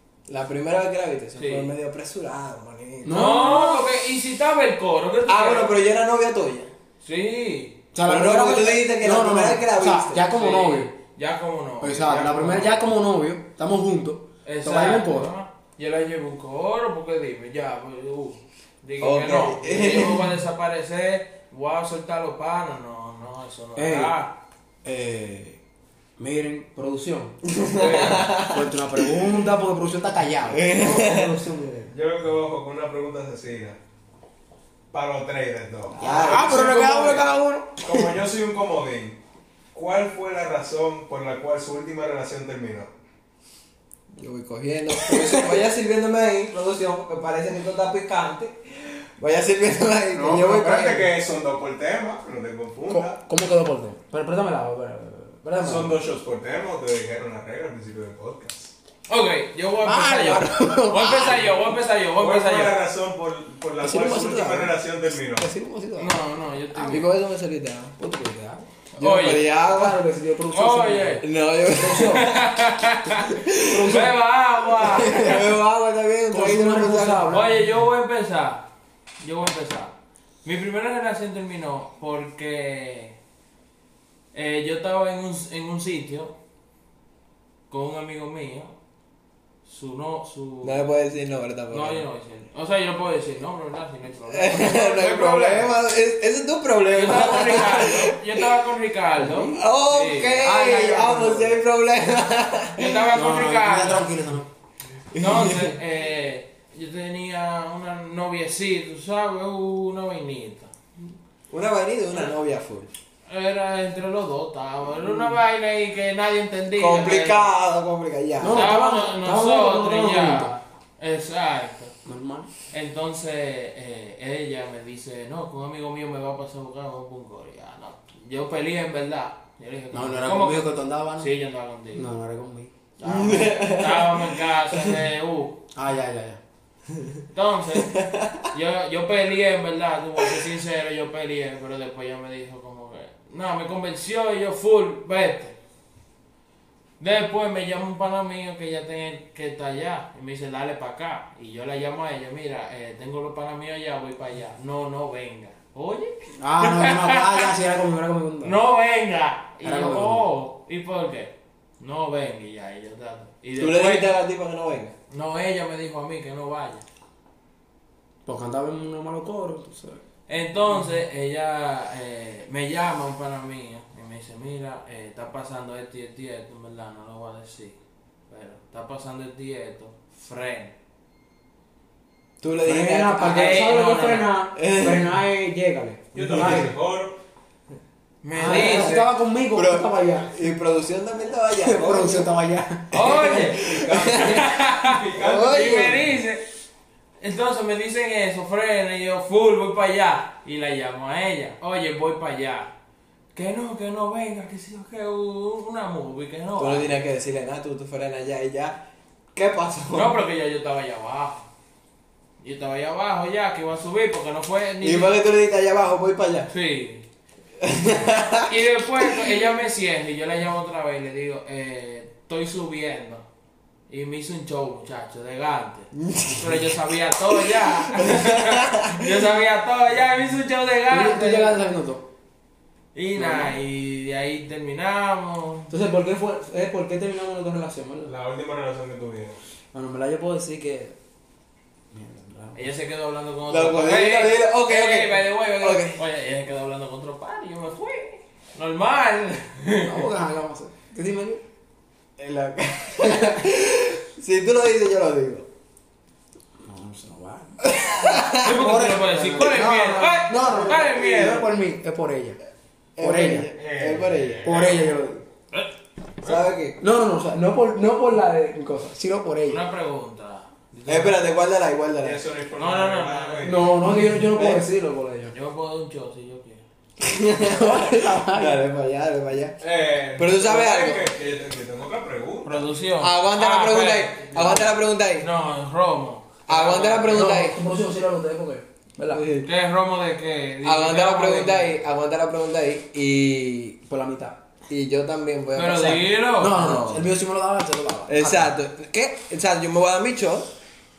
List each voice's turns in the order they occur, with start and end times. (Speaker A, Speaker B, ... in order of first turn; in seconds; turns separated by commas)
Speaker A: 0.3-3.5, Speaker B: 1.4-1.7, Speaker C: 3.0-3.9, Speaker B: 3.1-5.7, Speaker A: 5.3-6.7, Speaker B: 7.0-7.8, Speaker C: 7.9-10.9, Speaker A: 8.1-10.2, Speaker B: 10.3-12.8, Speaker C: 11.8-15.3, Speaker D: 12.1-12.6, Speaker B: 14.4-24.4, Speaker A: 19.0-20.3, Speaker C: 23.8-24.1, Speaker C: 24.9-25.5, Speaker A: 24.9-25.3, Speaker C: 26.2-31.9, Speaker A: 27.6-28.7, Speaker B: 27.8-28.2, Speaker A: 30.5-31.3, Speaker D: 31.9-33.8, Speaker D: 34.9-37.3, Speaker A: 35.9-36.8, Speaker C: 36.0-38.0, Speaker D: 37.8-39.2, Speaker D: 39.7-42.9, Speaker A: 44.1-51.1, Speaker C: 45.1-45.6, Speaker C: 50.1-51.0, Speaker D: 50.2-53.2, Speaker C: 52.9-56.0, Speaker D: 55.6-58.7, Speaker B: 59.1-62.8, Speaker C: 59.8-61.6, Speaker D: 62.2-65.5, Speaker C: 63.8-64.8, Speaker C: 65.4-67.1, Speaker B: 66.0-67.1, Speaker A: 66.9-67.9, Speaker C: 68.0-68.7, Speaker B: 69.0-69.5, Speaker A: 69.0-70.0, Speaker C: 69.5-72.3, Speaker B: 70.5-71.2, Speaker A: 71.2-72.4, Speaker B: 72.0-75.5, Speaker A: 73.3-74.0, Speaker C: 73.6-74.2, Speaker C: 74.8-75.5, Speaker A: 75.0-77.4, Speaker C: 76.3-77.5, Speaker B: 77.3-78.7, Speaker B: 79.2-83.2, Speaker B: 84.3-86.3, Speaker B: 87.7-88.8, Speaker B: 89.7-90.9, Speaker A: 90.6-92.0, Speaker B: 91.7-95.7, Speaker A: 94.3-98.5, Speaker B: 96.9-100.4, Speaker C: 99.2-99.7, Speaker A: 99.5-103.1, Speaker C: 100.4-101.6, Speaker B: 102.8-104.1, Speaker C: 103.1-104.5, Speaker A: 105.1-105.7, Speaker B: 105.2-110.7, Speaker A: 111.5-112.9, Speaker B: 113.3-117.5, Speaker A: 116.8-118.7, Speaker C: 118.4-120.5, Speaker B: 118.5-121.9, Speaker C: 122.0-122.5, Speaker B: 122.7-132.1, Speaker C: 129.9-131.3, Speaker C: 131.9-132.7, Speaker B: 133.0-135.6, Speaker A: 133.0-134.3, Speaker C: 135.7-136.4, Speaker B: 137.3-137.9, Speaker A: 137.8-138.5, Speaker B: 138.5-145.6, Speaker B: 147.0-157.5, Speaker C: 156.4-158.6, Speaker B: 158.4-164.1, Speaker C: 159.6-160.2, Speaker A: 163.6-164.9, Speaker B: 165.1-166.8, Speaker C: 168.3-170.0, Speaker B: 170.3-177.8, Speaker B: 178.3-180.8, Speaker A: 182.4-183.6, Speaker C: 182.6-186.8, Speaker B: 183.2-184.4, Speaker A: 184.6-185.2, Speaker D: 186.1-187.2, Speaker A: 186.2-186.6, Speaker B: 188.2-189.0, Speaker C: 188.3-190.3, Speaker A: 188.4-192.3, Speaker C: 191.6-193.4, Speaker B: 192.9-196.4, Speaker A: 192.9-194.5, Speaker D: 193.9-196.1, Speaker A: 195.1-196.1, Speaker B: 197.2-202.7, Speaker B: 203.3-206.9, Speaker A: 206.6-210.1, Speaker B: 209.9-211.5, Speaker B: 212.4-215.1, Speaker A: 214.8-216.5, Speaker B: 216.5-217.1, Speaker A: 217.6-218.5, Speaker B: 218.4-223.2, Speaker A: 219.0-219.4, Speaker B: 223.9-231.6, Speaker A: 226.0-226.8, Speaker A: 227.5-229.1, Speaker C: 230.9-232.1, Speaker B: 232.9-235.7, Speaker C: 233.2-233.5, Speaker C: 235.7-238.1, Speaker D: 238.1-239.4, Speaker C: 239.7-241.0, Speaker C: 241.9-242.7, Speaker B: 242.6-250.0, Speaker A: 243.5-246.0, Speaker C: 249.8-251.4, Speaker A: 252.2-255.5, Speaker C: 256.6-262.4, Speaker A: 257.7-258.5, Speaker B: 258.3-261.4, Speaker A: 260.4-261.4, Speaker A: 263.0-264.6, Speaker C: 263.0-263.5, Speaker D: 263.6-265.0, Speaker C: 264.4-265.2, Speaker B: 265.5-266.5, Speaker A: 266.2-266.8, Speaker C: 266.8-269.6, Speaker B: 269.5-271.2, Speaker A: 270.9-272.2, Speaker D: 272.0-273.8, Speaker B: 272.6-273.5, Speaker C: 273.4-275.3, Speaker A: 273.9-274.6, Speaker B: 275.3-276.6, Speaker A: 277.0-279.6, Speaker C: 277.4-278.6, Speaker D: 279.6-282.7, Speaker A: 280.2-281.1, Speaker B: 282.4-287.3, Speaker A: 283.0-285.3, Speaker A: 286.5-287.6, Speaker C: 287.1-289.2, Speaker A: 289.1-289.5, Speaker B: 289.4-291.7, Speaker A: 290.6-293.8, Speaker C: 293.9-294.4, Speaker A: 294.7-297.1, Speaker B: 295.6-296.6, Speaker C: 296.4-298.5, Speaker A: 298.1-300.5